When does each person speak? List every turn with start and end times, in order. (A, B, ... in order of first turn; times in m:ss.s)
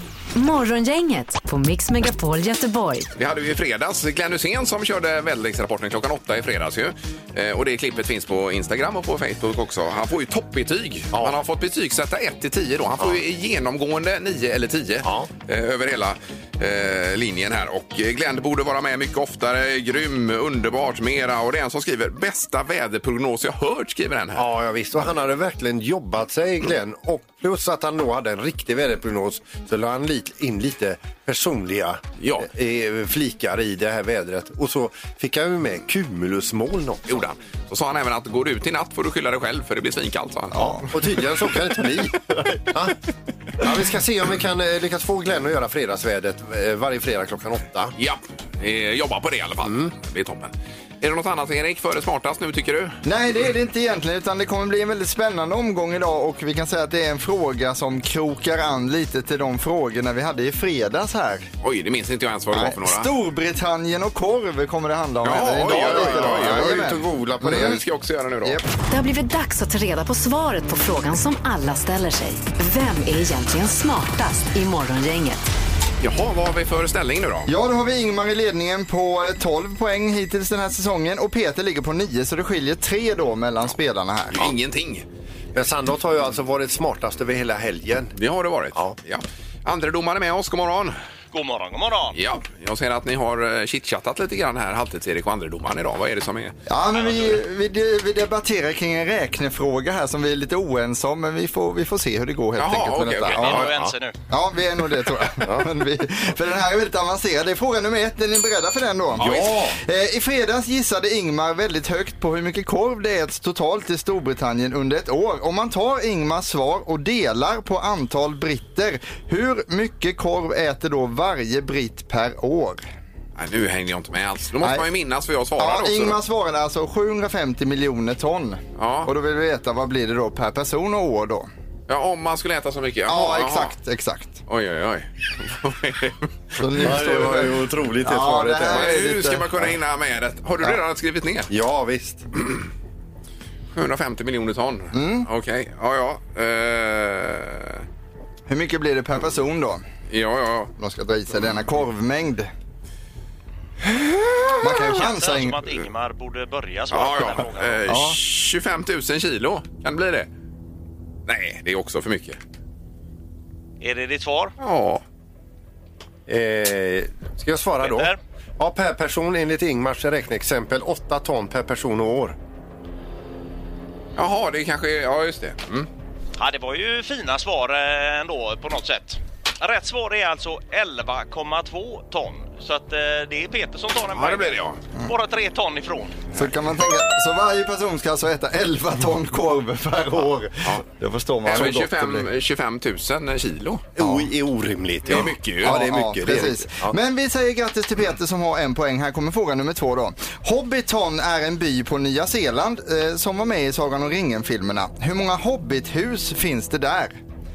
0:00.3-0:03.1 A
0:03.2-0:24.5 B
0:15.0-0:15.3 C
0:24.3-0:37.3 C
0:32.2-0:32.5 B
0:37.1-0:40.9 B
0:40.5-0:40.8 D
0:40.5-0:42.9 C
0:43.6-0:47.9 C
0:48.0-0:53.0 B
0:49.6-0:49.9 C
0:53.0-1:01.5 D
1:01.6-1:03.1 B
1:02.5-1:07.8 D
1:05.2-1:08.6 B
1:05.6-1:07.8 C
1:08.9-1:15.4 A
1:16.0-1:17.5 B
1:17.5-1:24.5 D
1:24.3-1:25.0 B
1:25.5-1:28.1 C
1:28.2-1:30.9 B
1:31.3-1:32.2 E
1:32.1-1:36.5 B
1:36.7-1:43.6 D
1:42.6-1:43.7 B
1:43.3-1:44.2 E
1:43.6-1:43.9 C
1:44.3-2:02.8 D
1:45.4-1:45.7 C
1:49.2-1:49.8 C
1:49.2-1:49.5 B
2:03.4-2:06.2 B
2:05.6-2:11.5 D
2:08.8-2:09.1 B
2:11.9-2:13.7 B
2:13.1-2:14.4 D
2:14.5-2:16.2 B
2:16.6-2:19.4 D
2:16.8-2:18.9 C
2:18.7-2:21.5 B
2:21.5-2:22.3 C
2:23.7-2:27.8 B
2:24.9-2:25.3 D
2:28.5-2:29.8 D
2:30.1-2:30.7 B
2:30.8-2:32.5 D
2:34.6-2:35.6 D
2:34.9-2:37.9 E
2:36.9-2:40.3 B
2:37.9-2:38.2 D
2:41.3-2:42.4 B
2:43.8-2:44.5 E
2:44.6-2:45.0 B
2:46.3-2:52.4 C
2:47.8-2:48.2 E
2:54.2-2:55.9 B
2:56.4-3:06.3 E
3:04.1-3:04.8 B
3:06.3-3:12.3 D
3:11.4-3:13.8 B
3:14.0-3:16.9 C
3:14.0-3:14.3 D
3:15.1-3:15.8 B
3:15.6-3:27.2 D